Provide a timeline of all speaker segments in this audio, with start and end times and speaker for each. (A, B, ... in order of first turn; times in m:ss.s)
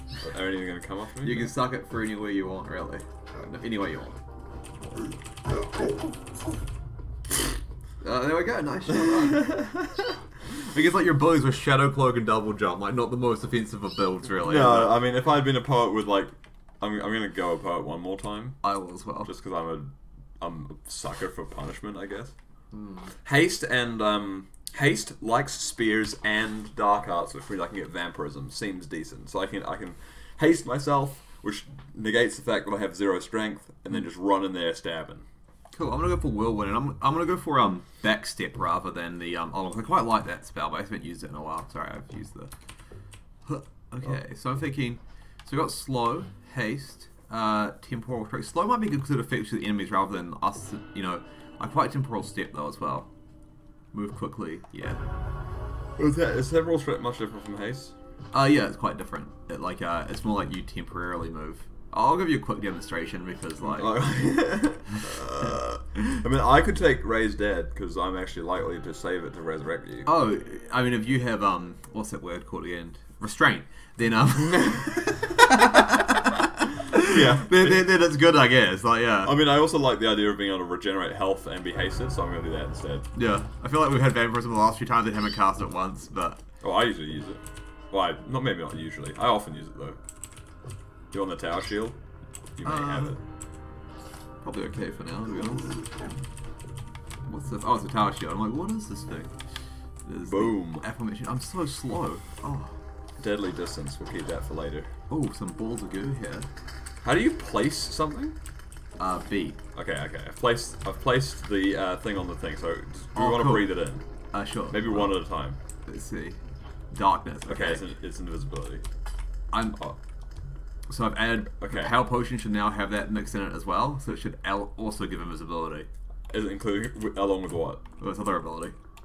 0:00.2-0:01.5 A
0:01.2-0:04.2 B
0:08.0-0:09.6 B
0:09.0-0:10.1 A
0:10.5-0:15.0 B
0:14.4-0:18.6 A
0:18.6-0:19.3 B
0:19.3-0:22.3 A
0:22.7-0:23.1 B
0:23.2-0:35.2 A
0:35.7-0:42.5 B
0:43.5-0:53.1 B
0:53.9-0:55.0 B
0:56.0-0:57.9 A
0:58.3-1:04.0 B
1:03.6-1:10.1 A
1:10.1-1:19.4 B
1:14.6-1:14.9 A
1:16.9-1:17.9 A
1:19.2-1:23.1 A
1:23.1-1:26.4 B
1:26.6-1:30.0 A
1:31.1-1:32.0 A
1:32.6-1:33.2 A
1:32.6-1:33.2 B
1:34.4-1:35.9 B
1:37.3-1:39.3 B
1:40.0-1:42.7 B
1:40.3-1:40.8 A
1:43.2-1:44.9 A
1:45.1-1:46.5 B
1:47.0-1:48.4 A
1:49.0-1:49.6 B
1:49.8-1:54.0 A
1:53.2-1:53.8 B
1:54.3-1:55.2 B
1:54.7-1:55.6 A
1:55.9-1:56.4 B
1:56.9-1:57.8 B
1:57.5-1:58.8 A
1:59.5-1:59.8 B
2:00.9-2:05.9 B
2:01.6-2:02.0 A
2:06.3-2:07.8 A
2:08.0-2:08.8 B